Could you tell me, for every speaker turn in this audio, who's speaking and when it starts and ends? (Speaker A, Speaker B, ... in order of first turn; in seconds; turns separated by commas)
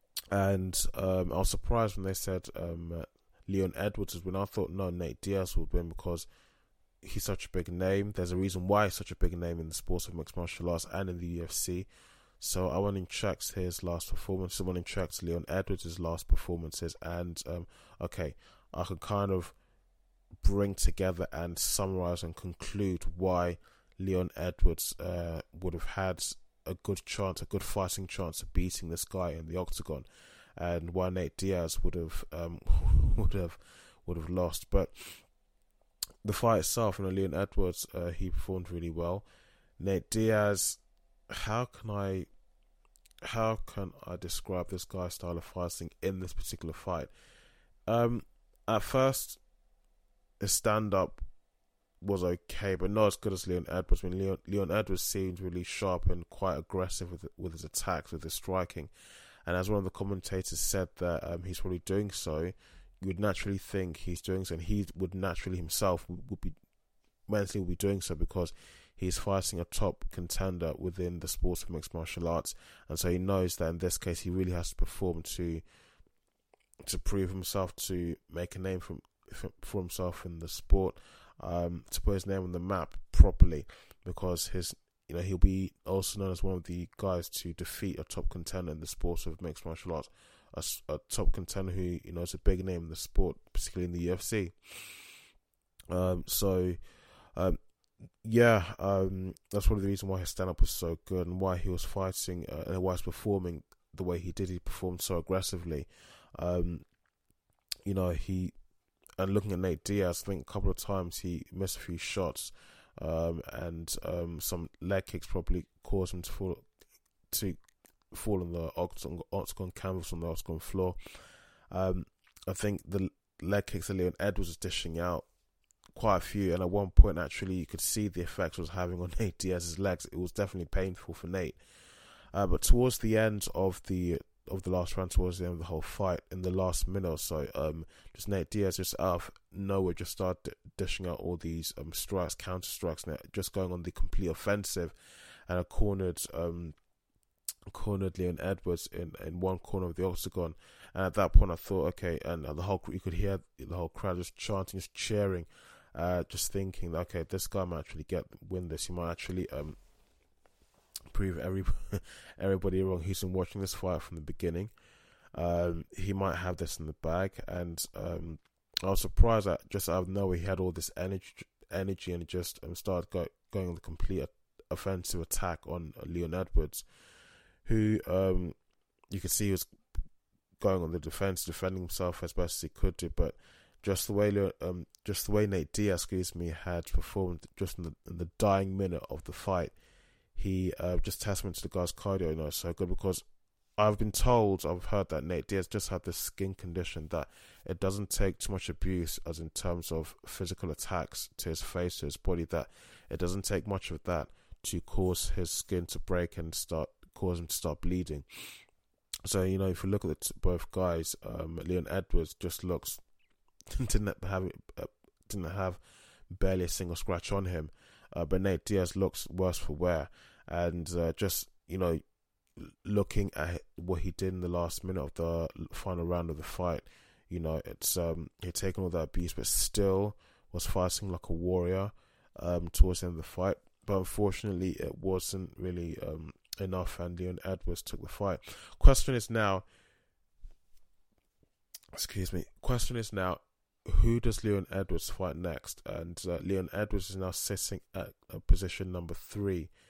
Speaker A: 0.3-6.3, Speaker A: 7.0-11.9, Speaker A: 12.4-19.6, Speaker A: 20.4-35.3, Speaker A: 36.2-39.2, Speaker A: 39.8-42.3, Speaker A: 43.2-47.1, Speaker A: 47.9-49.4, Speaker A: 50.4-51.2, Speaker A: 52.0-58.9, Speaker A: 59.5-66.5, Speaker A: 67.3-75.6, Speaker A: 76.8-95.1, Speaker A: 95.9-96.8, Speaker A: 98.2-106.8, Speaker A: 107.8-108.5, Speaker A: 109.2-116.6, Speaker A: 117.3-117.6, Speaker A: 118.1-125.3, Speaker A: 125.9-144.9, Speaker A: 145.5-146.7, Speaker A: 147.7-159.8, Speaker A: 161.1-164.7, Speaker A: 165.3-176.8, Speaker A: 177.6-178.5, Speaker A: 179.1-179.7, Speaker A: 180.6-189.7, Speaker A: 190.3-193.2, Speaker A: 193.8-208.6, Speaker A: 209.2-213.0, Speaker A: 213.7-222.0, Speaker A: 222.6-239.6, Speaker A: 241.9-249.7